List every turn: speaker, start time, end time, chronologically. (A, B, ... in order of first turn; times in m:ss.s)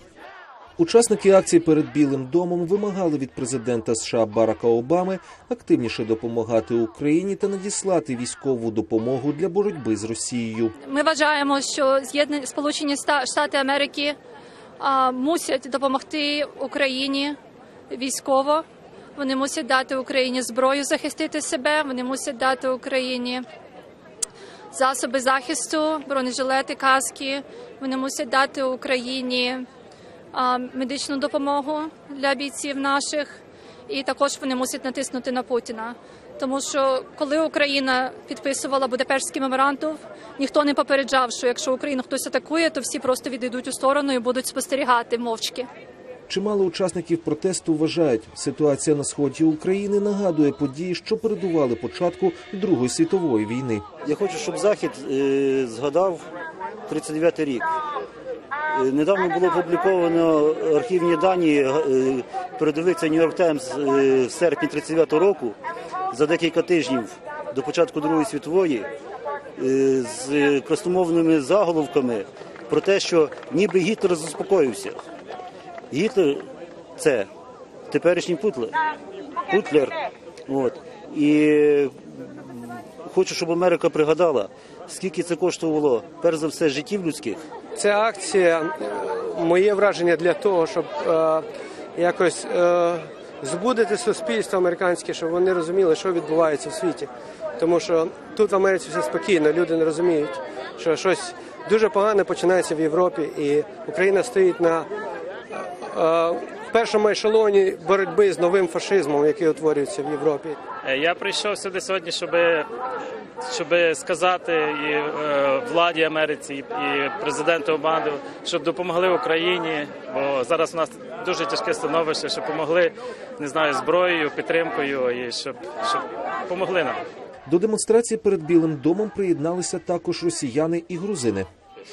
0:00.8-0:10.8 A
0:10.9-0:14.2 B
0:14.8-0:17.4 B
0:17.9-0:18.6 B
0:19.2-0:23.4 B
0:24.7-0:29.6 B
0:30.3-0:45.7 B
0:46.3-0:53.9 A
0:54.0-0:56.3 C
0:56.9-0:57.7 C
0:58.7-1:05.6 C
1:06.1-1:08.9 C
1:09.6-1:15.0 C
1:15.9-1:17.3 C
1:17.9-1:18.8 C
1:19.5-1:20.0 C
1:20.5-1:27.4 C
1:27.8-1:31.4 D
1:32.0-1:44.9 D
1:45.5-1:50.6 D
1:50.8-1:52.4 E
1:53.6-1:55.0 E
1:55.6-2:02.8 E
2:03.4-2:06.0 E
2:06.6-2:06.9 E
2:07.5-2:11.5 A